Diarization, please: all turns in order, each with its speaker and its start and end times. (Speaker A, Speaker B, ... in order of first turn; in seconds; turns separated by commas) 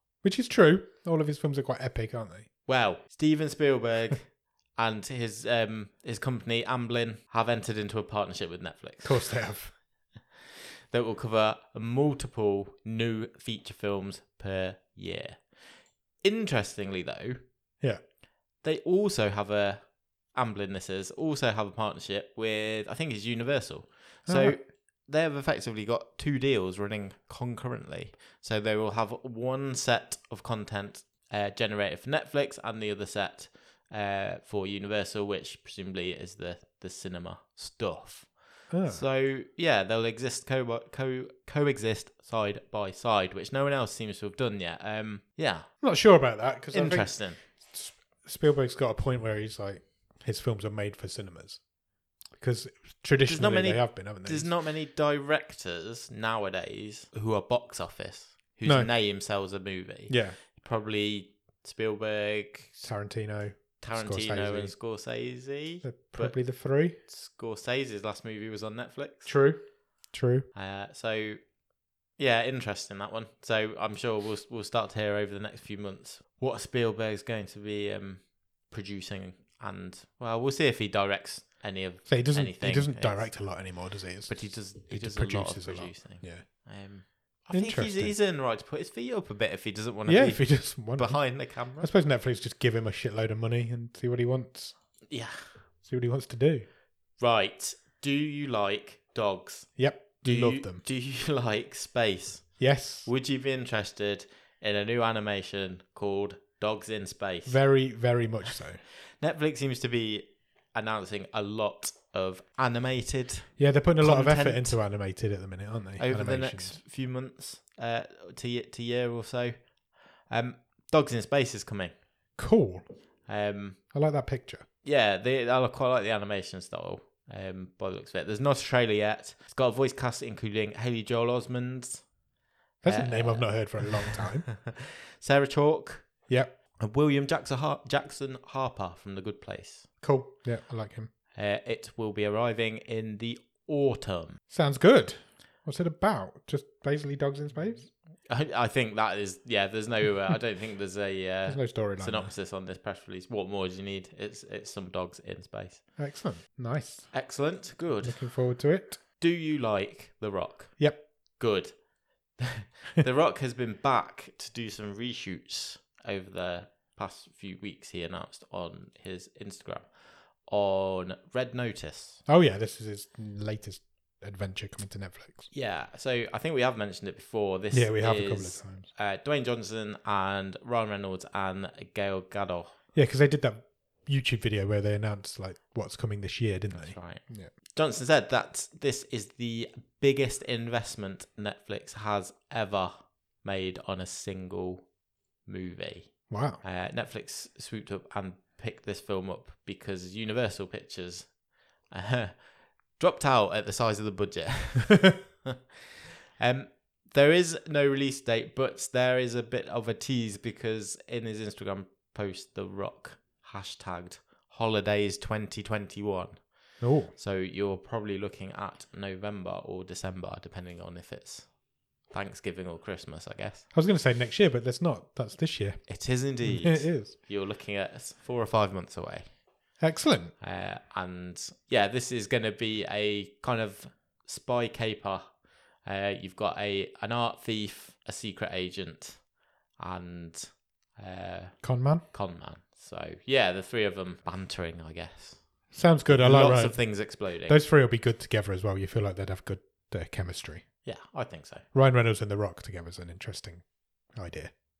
Speaker A: 0.2-2.5, Speaker B: 2.7-9.4, Speaker A: 9.0-9.7, Speaker B: 10.9-15.5, Speaker B: 16.2-17.4, Speaker B: 18.6-45.7, Speaker A: 24.3-24.6, Speaker A: 38.7-39.0, Speaker A: 45.8-51.6, Speaker B: 46.7-47.4, Speaker A: 52.4-54.5, Speaker B: 53.2-62.9, Speaker A: 58.6-58.9, Speaker A: 60.1-60.4, Speaker A: 62.8-64.7, Speaker B: 63.8-66.3, Speaker A: 65.8-67.0, Speaker B: 67.1-69.3, Speaker A: 69.2-70.5, Speaker B: 70.5-71.4, Speaker B: 72.2-83.3, Speaker A: 82.0-86.5, Speaker B: 84.3-91.9, Speaker A: 87.5-88.1, Speaker A: 90.1-94.7, Speaker B: 95.1-95.5, Speaker A: 95.8-96.7, Speaker B: 97.2-107.6, Speaker A: 99.8-100.8, Speaker A: 102.6-103.1, Speaker A: 107.5-108.8, Speaker B: 109.2-114.8, Speaker A: 113.6-116.8, Speaker B: 116.0-119.7, Speaker B: 120.3-121.9, Speaker A: 122.4-122.8, Speaker B: 123.3-123.8, Speaker A: 123.9-124.6, Speaker B: 124.8-132.1, Speaker A: 132.8-134.5, Speaker B: 132.8-136.1, Speaker B: 136.8-139.9, Speaker A: 140.0-141.1, Speaker B: 141.3-144.4, Speaker A: 144.5-147.9, Speaker B: 148.3-155.8, Speaker A: 151.4-152.3, Speaker A: 156.0-157.1, Speaker B: 157.1-158.2, Speaker A: 158.0-159.0, Speaker B: 159.2-160.8, Speaker B: 161.4-161.7, Speaker B: 162.4-169.9, Speaker B: 170.4-172.2, Speaker A: 172.2-175.5, Speaker B: 175.5-182.7, Speaker A: 177.7-178.9, Speaker A: 182.9-187.5, Speaker B: 186.8-194.9, Speaker B: 195.4-201.3, Speaker A: 196.3-196.6, Speaker B: 201.9-202.4, Speaker B: 203.0-205.6, Speaker B: 206.4-216.5, Speaker A: 216.8-217.1, Speaker B: 217.1-221.5, Speaker B: 222.1-223.7, Speaker A: 223.7-227.1, Speaker B: 225.9-229.2, Speaker A: 229.8-230.3, Speaker B: 230.4-235.2, Speaker B: 235.8-239.2, Speaker B: 239.8-245.4, Speaker A: 241.6-242.0, Speaker A: 245.7-246.9, Speaker B: 246.1-247.6, Speaker A: 247.4-250.6, Speaker B: 250.8-251.6, Speaker A: 251.7-254.5